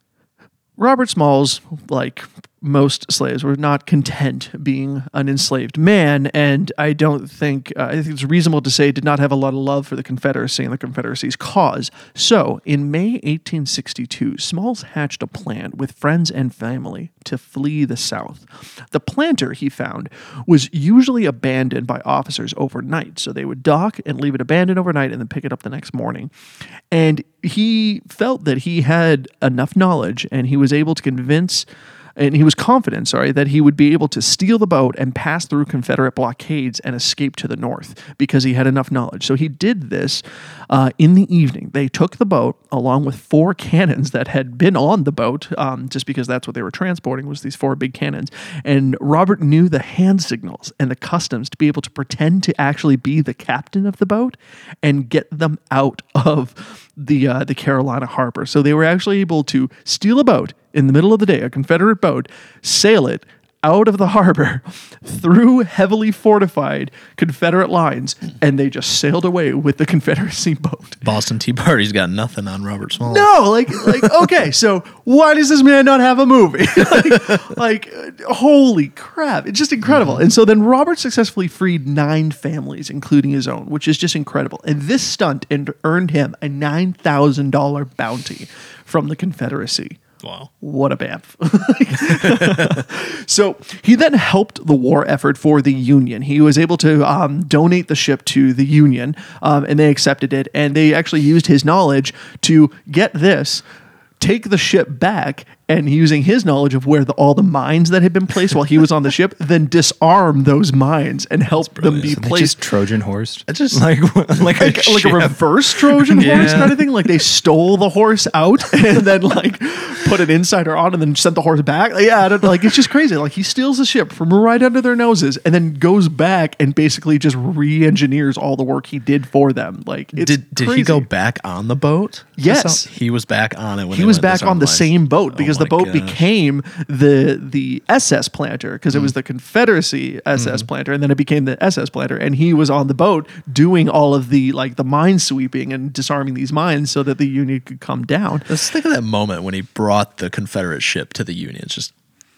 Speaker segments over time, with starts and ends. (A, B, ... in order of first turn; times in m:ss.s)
0:00.8-0:26.3 A
0:26.9-1:11.0 A
1:11.0-1:14.1 B
1:13.0-1:30.0 A
1:19.8-1:20.2 B
1:30.2-1:30.5 B
1:30.6-1:43.6 A
1:32.2-1:32.8 B
1:44.2-1:52.5 A
1:51.6-1:52.2 B
1:52.2-1:56.6 C
1:53.5-1:53.8 B
1:54.6-2:11.0 A
1:56.2-1:56.8 B
2:10.1-2:16.3 B
2:12.4-2:12.9 A
2:13.9-2:28.5 A
2:20.4-2:20.7 B
2:28.5-2:31.9 B